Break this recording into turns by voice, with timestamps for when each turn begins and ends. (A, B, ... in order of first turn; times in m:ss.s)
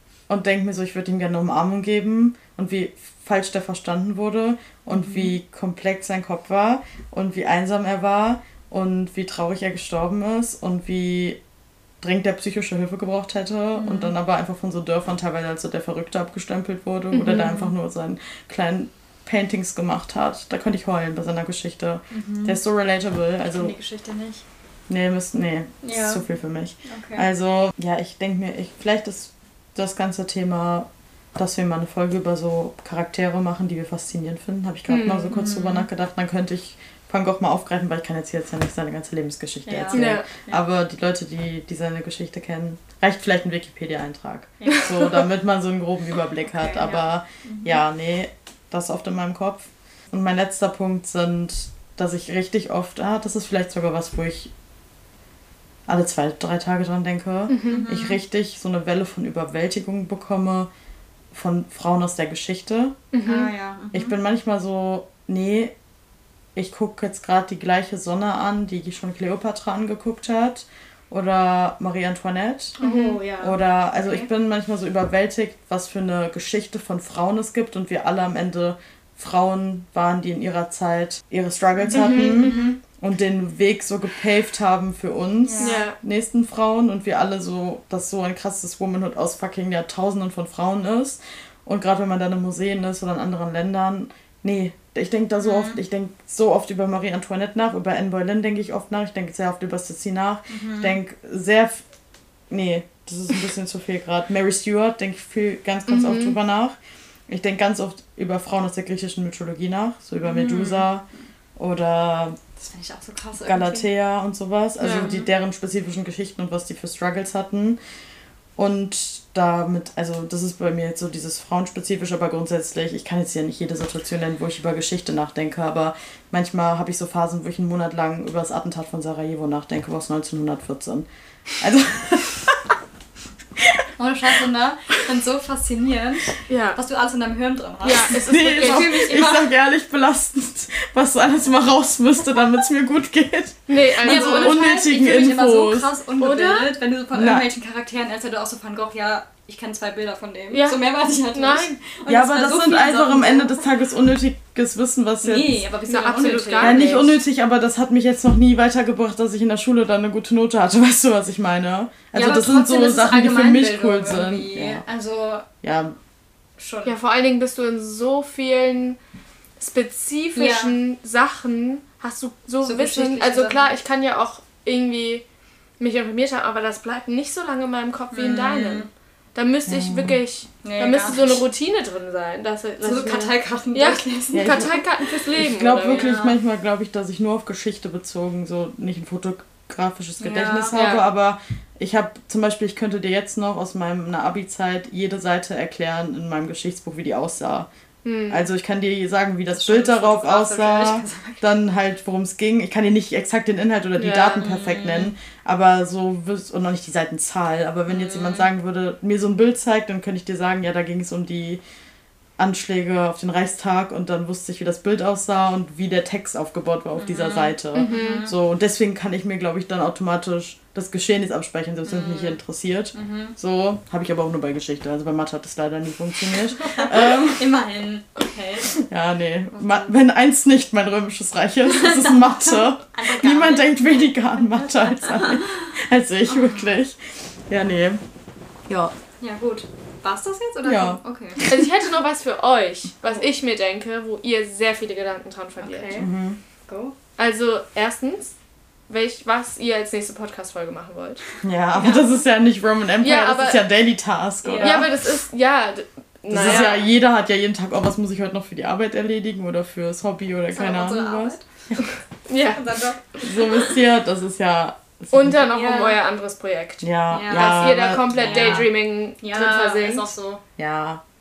0:00.3-0:11.4 A
0:04.9-0:05.3 B
0:12.0-0:23.8 A
0:13.8-0:14.1 B
0:17.1-0:17.7 B
0:22.1-0:22.6 B
0:23.6-0:24.4 B
0:24.9-0:54.5 A
0:25.8-0:26.2 B
0:26.8-0:27.2 B
0:34.9-0:35.3 C
0:35.3-0:35.9 B
0:39.7-0:40.6 B
0:39.9-0:40.3 C
0:44.6-0:44.9 B
0:44.7-0:45.1 C
0:46.5-0:47.8 B
0:55.9-1:00.7 A
0:57.5-0:57.9 C
0:57.7-0:58.2 B
1:01.3-1:03.0 A
1:03.1-1:03.5 C
1:03.2-1:04.2 B
1:03.9-1:05.8 A
1:06.6-1:12.8 A
1:12.8-1:14.3 B
1:12.8-1:13.2 C
1:13.4-1:41.9 A
1:21.8-1:22.8 B
1:21.9-1:22.6 C
1:25.4-1:25.9 B
1:25.6-1:26.0 C
1:35.4-1:35.8 B
1:40.5-1:41.0 B
1:42.5-1:46.8 A
1:45.9-1:46.4 C
1:47.3-1:51.0 A
1:50.2-1:50.9 B
1:51.6-1:52.4 A
1:52.7-1:53.8 B
1:53.4-1:57.8 A
1:54.8-1:55.2 C
1:55.0-1:55.3 B
1:58.6-2:12.6 A
2:14.0-2:19.5 B
2:16.5-2:16.8 C
2:17.8-2:19.1 C
2:18.2-2:25.9 A
2:23.7-2:24.6 C
2:24.0-2:33.6 B
2:26.2-2:26.7 C
2:27.2-2:27.5 A
2:30.5-2:31.8 C
2:32.1-2:35.7 A
2:35.2-2:37.2 B
2:35.9-2:36.9 C
2:36.5-2:44.8 A
2:42.1-2:45.5 B
2:45.6-2:46.0 A
2:46.6-2:47.0 B
2:46.8-2:49.0 C
2:49.6-2:55.2 C
2:50.4-2:50.8 B
2:52.6-2:53.7 B
2:55.8-3:06.1 C
2:58.1-2:58.9 B
2:59.7-3:00.2 A
3:00.6-3:01.4 B
3:02.8-3:04.9 B
3:04.3-3:04.8 A
3:05.3-3:17.7 A
3:05.8-3:06.4 B
3:10.2-3:10.8 B
3:10.7-3:11.0 C
3:18.0-3:18.4 C
3:18.3-3:31.6 A
3:19.6-3:21.4 B
3:24.0-3:24.5 C
3:24.4-3:25.1 B
3:27.9-3:28.5 B
3:32.4-3:47.5 A
3:37.0-3:38.3 B
3:37.8-3:38.3 C
3:41.9-3:42.4 B
3:42.9-3:43.4 B
3:46.6-3:48.8 B
3:48.8-3:58.0 A
3:49.5-3:49.9 B
3:51.7-3:55.5 B
3:56.3-3:56.8 B
3:58.7-3:58.9 A
3:59.2-4:01.4 B
4:00.6-4:01.6 A
4:01.5-4:06.0 C
4:05.6-4:06.1 B
4:06.0-4:06.4 A
4:06.7-4:07.0 B
4:07.2-4:08.4 C
4:08.9-4:12.1 C
4:11.4-4:15.1 A
4:13.0-4:13.6 C
4:14.4-4:14.9 B
4:14.6-4:16.8 C
4:16.3-4:21.9 A
4:20.5-4:21.4 B
4:22.3-4:22.8 C
4:22.4-4:23.7 B
4:23.2-4:25.4 A
4:25.1-4:30.1 C
4:25.5-4:26.0 B
4:26.8-4:28.7 A
4:27.1-4:30.4 B
4:30.6-4:31.0 A